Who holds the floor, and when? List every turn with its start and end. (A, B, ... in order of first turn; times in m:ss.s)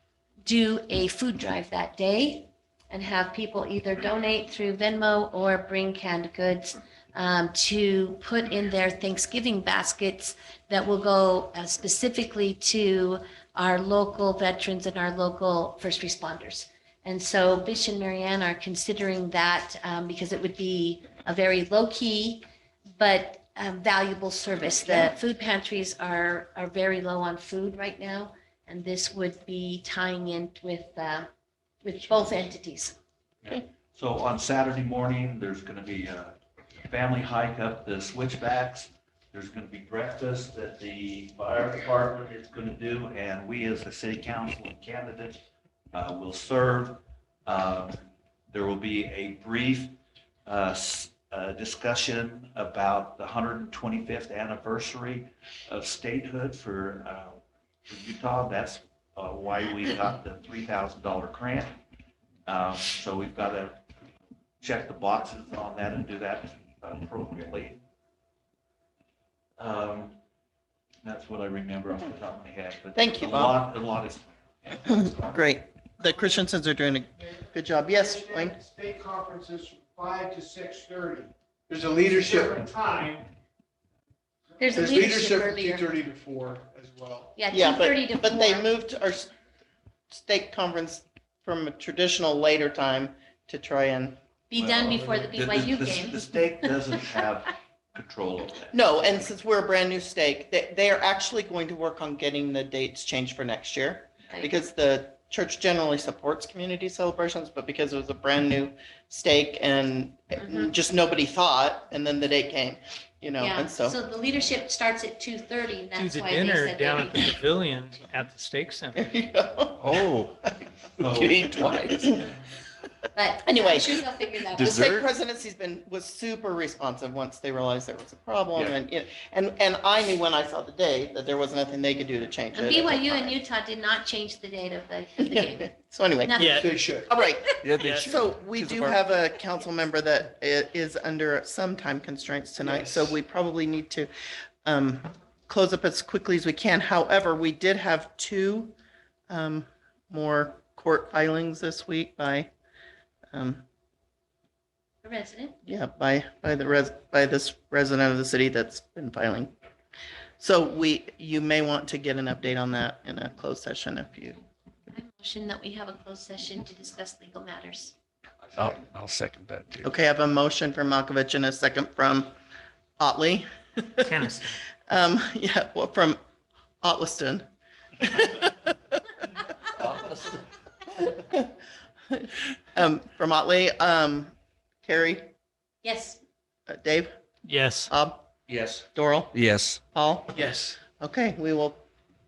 0:00.4-0:22.4 A
0:23.0-0:31.3 A
0:31.8-0:33.0 A
0:33.4-0:36.3 B
0:36.9-0:45.4 B
0:45.9-1:01.8 B
1:02.5-1:03.8 B
1:04.6-1:07.8 B
1:09.6-1:10.2 B
1:11.0-1:15.2 B
1:12.9-1:13.6 C
1:14.9-1:18.6 C
1:17.9-1:23.3 D
1:24.6-1:25.9 A
1:24.7-1:27.3 D
1:27.4-1:28.7 A
1:27.5-1:29.3 C
1:30.1-1:34.2 C
1:34.5-1:36.8 A
1:34.5-1:38.7 B
1:38.7-1:54.0 C
1:50.4-1:50.7 A
1:53.4-1:57.4 A
1:55.9-1:59.0 E
1:58.9-2:00.0 C
1:59.8-2:00.4 F
2:01.0-2:01.8 B
2:01.0-2:02.2 F
2:03.1-2:04.9 A
2:03.4-2:13.4 C
2:04.5-2:05.0 F
2:12.5-2:17.6 A
2:15.2-2:24.1 C
2:16.4-2:16.7 E
2:16.4-2:17.1 D
2:17.6-2:19.1 F
2:17.8-2:18.1 E
2:22.6-2:23.0 D
2:24.6-2:28.7 C
2:29.3-2:32.5 C
2:33.3-2:33.6 C
2:35.0-2:35.5 A
2:35.6-2:39.5 C
2:40.4-2:44.4 C
2:44.9-2:47.9 A
2:48.5-2:49.9 F
2:49.8-2:52.3 C
2:53.0-2:54.3 C
2:54.0-2:54.6 E
2:54.8-2:56.2 C
2:56.8-2:57.4 C
2:58.0-2:59.0 C
2:59.8-3:00.3 B
3:01.0-3:01.5 C
3:02.1-3:04.3 C
3:04.8-3:05.3 C
3:05.8-3:06.2 A
3:06.7-3:07.1 C
3:07.4-3:07.9 E
3:07.9-3:08.2 C
3:08.5-3:08.8 B
3:08.9-3:09.4 C
3:09.3-3:09.8 F
3:09.9-3:11.8 C
3:10.4-3:10.7 D